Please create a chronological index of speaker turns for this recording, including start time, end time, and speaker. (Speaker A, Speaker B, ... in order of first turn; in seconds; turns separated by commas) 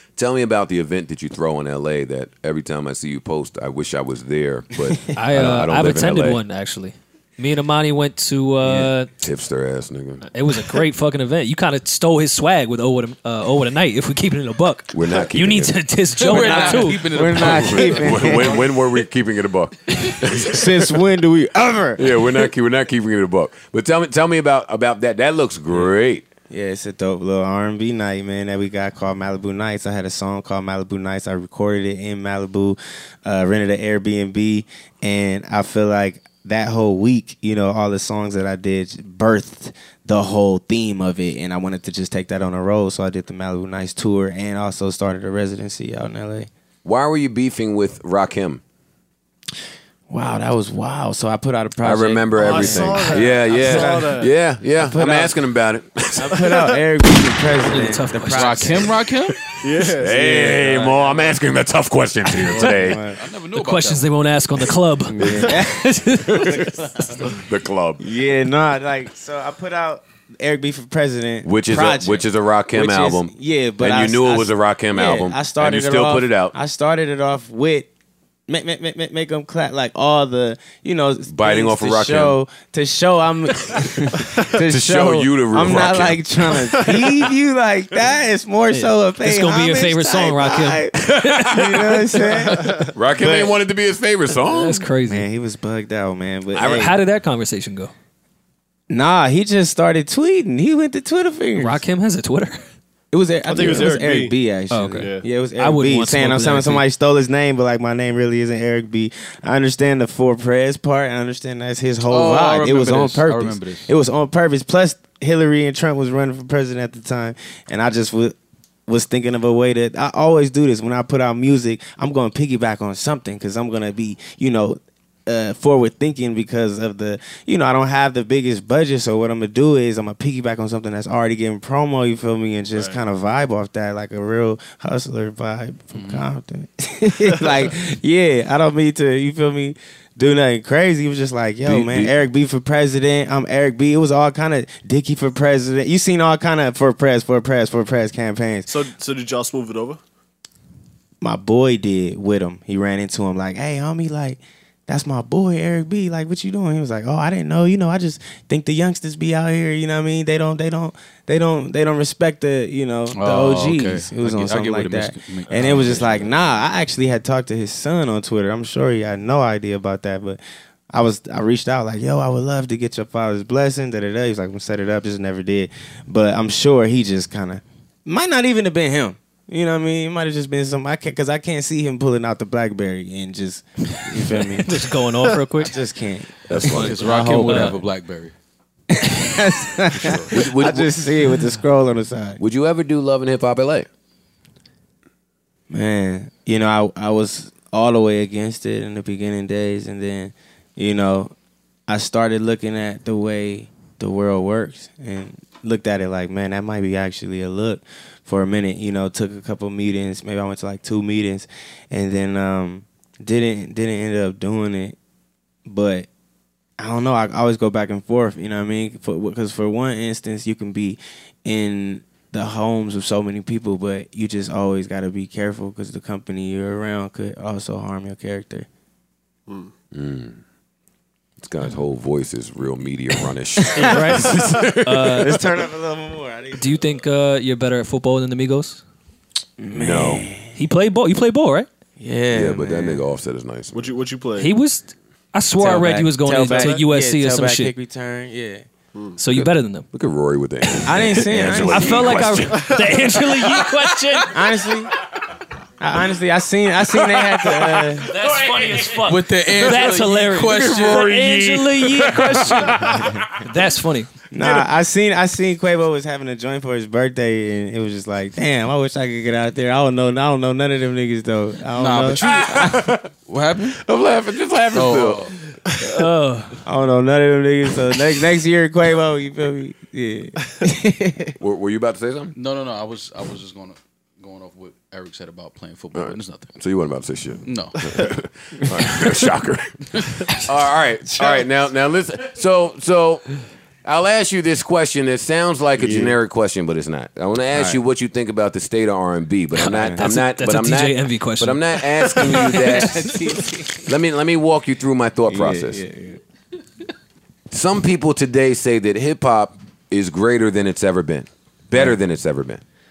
Speaker A: 0.1-6.4, Speaker B: 5.1-9.1, Speaker C: 8.6-8.9, Speaker A: 9.2-10.3, Speaker B: 10.3-17.3, Speaker A: 14.9-15.8, Speaker C: 16.1-18.7, Speaker D: 16.3-18.7, Speaker A: 16.3-21.0, Speaker D: 20.3-22.5, Speaker A: 22.0-26.2, Speaker D: 26.5-46.5, Speaker A: 46.8-48.6, Speaker D: 50.1-54.1, Speaker A: 51.8-56.6, Speaker E: 52.4-54.3, Speaker D: 54.8-55.4, Speaker D: 56.2-59.0, Speaker B: 57.6-59.0, Speaker C: 58.2-59.4, Speaker E: 59.6-61.3, Speaker A: 59.8-63.0, Speaker C: 62.5-64.1, Speaker D: 62.6-63.2, Speaker B: 63.5-67.2, Speaker D: 65.0-65.8, Speaker A: 65.2-65.6, Speaker A: 66.2-66.6, Speaker D: 66.4-67.2, Speaker A: 67.2-68.0, Speaker D: 68.0-77.9, Speaker A: 71.4-76.5, Speaker D: 78.5-93.5, Speaker A: 81.3-82.4, Speaker A: 84.6-86.2, Speaker B: 88.7-92.5, Speaker A: 91.0-91.9, Speaker A: 92.9-94.9, Speaker B: 94.4-95.3, Speaker D: 95.0-97.0, Speaker A: 96.5-96.9, Speaker B: 96.6-97.9, Speaker D: 98.9-101.8, Speaker B: 101.5-102.6, Speaker D: 103.1-118.3, Speaker E: 103.5-104.3, Speaker B: 104.7-106.8, Speaker E: 105.0-105.3, Speaker C: 112.1-113.9, Speaker D: 118.9-148.7, Speaker E: 132.7-133.0, Speaker C: 135.9-136.3, Speaker A: 141.6-142.1, Speaker E: 148.7-150.0, Speaker D: 151.2-170.4, Speaker C: 163.1-166.7, Speaker E: 165.5-166.0, Speaker D: 170.9-184.9, Speaker B: 184.2-185.8, Speaker D: 185.5-186.4, Speaker A: 186.5-187.0, Speaker B: 186.6-187.8, Speaker C: 186.7-188.3, Speaker D: 187.0-187.7, Speaker D: 188.9-192.4, Speaker C: 189.9-190.3, Speaker A: 190.2-190.9, Speaker A: 192.4-193.9, Speaker D: 195.7-201.3, Speaker D: 201.9-214.9, Speaker D: 215.7-216.1, Speaker D: 216.8-228.7, Speaker A: 229.9-230.4, Speaker A: 231.4-235.4, Speaker B: 233.7-235.4, Speaker D: 233.8-234.3, Speaker D: 235.1-237.0, Speaker B: 236.5-238.8, Speaker D: 239.6-240.7, Speaker A: 239.7-240.3, Speaker B: 240.5-241.7, Speaker D: 242.0-243.0, Speaker A: 242.3-243.9, Speaker E: 243.7-244.6, Speaker B: 244.4-247.7, Speaker D: 245.6-248.6, Speaker E: 248.9-249.2, Speaker B: 249.2-249.8, Speaker A: 249.3-253.2, Speaker B: 250.7-254.6, Speaker D: 250.8-252.2, Speaker E: 252.7-252.9, Speaker D: 254.3-254.9, Speaker D: 255.8-258.1, Speaker A: 257.4-259.0, Speaker B: 258.0-264.1, Speaker C: 259.0-261.2, Speaker A: 260.3-263.2, Speaker D: 264.3-272.2, Speaker C: 271.7-273.8, Speaker A: 272.2-273.1, Speaker A: 273.8-275.3, Speaker C: 274.7-275.4, Speaker B: 275.9-276.6, Speaker D: 276.6-281.3, Speaker A: 281.4-282.3, Speaker C: 282.3-286.5, Speaker A: 285.9-293.3, Speaker C: 287.4-287.8, Speaker A: 293.8-303.1, Speaker D: 295.8-296.1, Speaker D: 297.5-297.8, Speaker B: 299.6-303.1, Speaker D: 299.6-300.0, Speaker D: 302.5-303.8, Speaker A: 303.9-305.8, Speaker D: 305.3-306.2, Speaker A: 307.5-312.6